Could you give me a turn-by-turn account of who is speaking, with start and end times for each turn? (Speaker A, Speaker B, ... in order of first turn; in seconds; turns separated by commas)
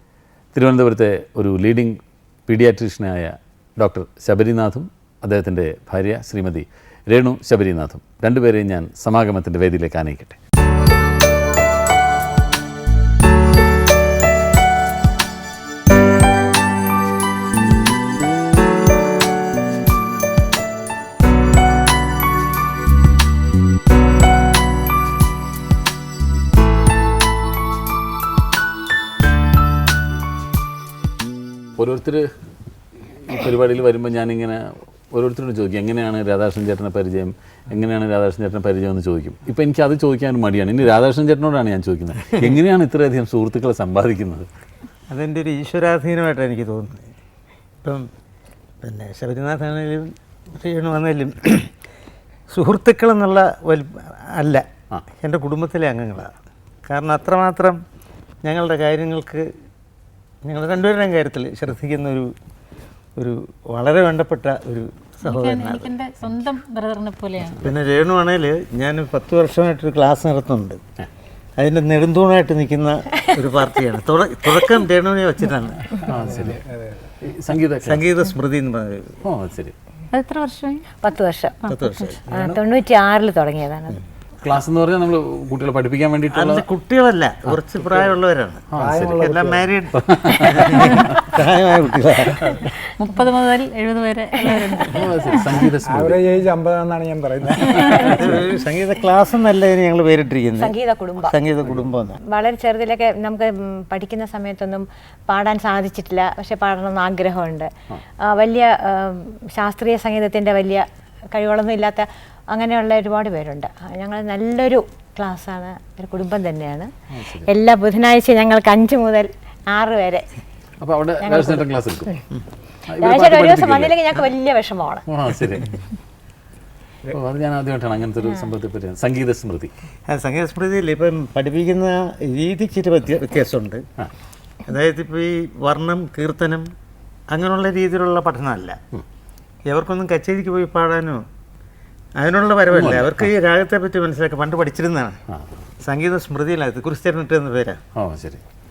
Speaker A: 0.5-10.4, Speaker A: 31.8-32.3, Speaker A: 33.2-44.5, Speaker B: 45.1-47.1, Speaker B: 47.8-48.1, Speaker B: 48.8-51.7, Speaker B: 52.5-56.3, Speaker B: 56.9-57.8, Speaker B: 58.4-59.5, Speaker B: 60.4-62.3, Speaker B: 63.2-65.9, Speaker C: 65.2-67.7, Speaker B: 67.6-70.8, Speaker B: 71.6-76.0, Speaker A: 76.0-76.6, Speaker D: 76.0-77.0, Speaker A: 77.2-78.0, Speaker B: 77.8-79.2, Speaker A: 79.2-79.7, Speaker C: 80.1-80.9, Speaker E: 81.0-81.6, Speaker C: 81.6-82.2, Speaker B: 81.7-82.2, Speaker E: 82.3-84.0, Speaker A: 82.3-82.6, Speaker A: 84.4-86.7, Speaker B: 86.3-92.6, Speaker A: 87.5-88.1, Speaker A: 88.7-89.2, Speaker D: 88.8-89.7, Speaker A: 89.9-91.2, Speaker C: 90.7-91.1, Speaker C: 93.0-95.5, Speaker A: 94.8-96.2, Speaker D: 95.8-98.4, Speaker A: 97.8-98.0, Speaker B: 98.0-102.2, Speaker E: 100.6-101.4, Speaker E: 102.2-107.7, Speaker E: 108.2-116.9, Speaker A: 117.1-117.5, Speaker E: 117.5-120.3, Speaker A: 120.8-122.1, Speaker E: 121.2-122.2, Speaker A: 122.9-124.2, Speaker E: 123.0-125.0, Speaker A: 125.1-125.8, Speaker A: 127.1-129.7, Speaker B: 130.1-133.8, Speaker B: 134.7-136.7, Speaker B: 137.3-138.8, Speaker B: 139.7-141.2, Speaker B: 142.2-145.2, Speaker A: 142.7-143.3, Speaker B: 145.8-147.8, Speaker A: 147.9-148.4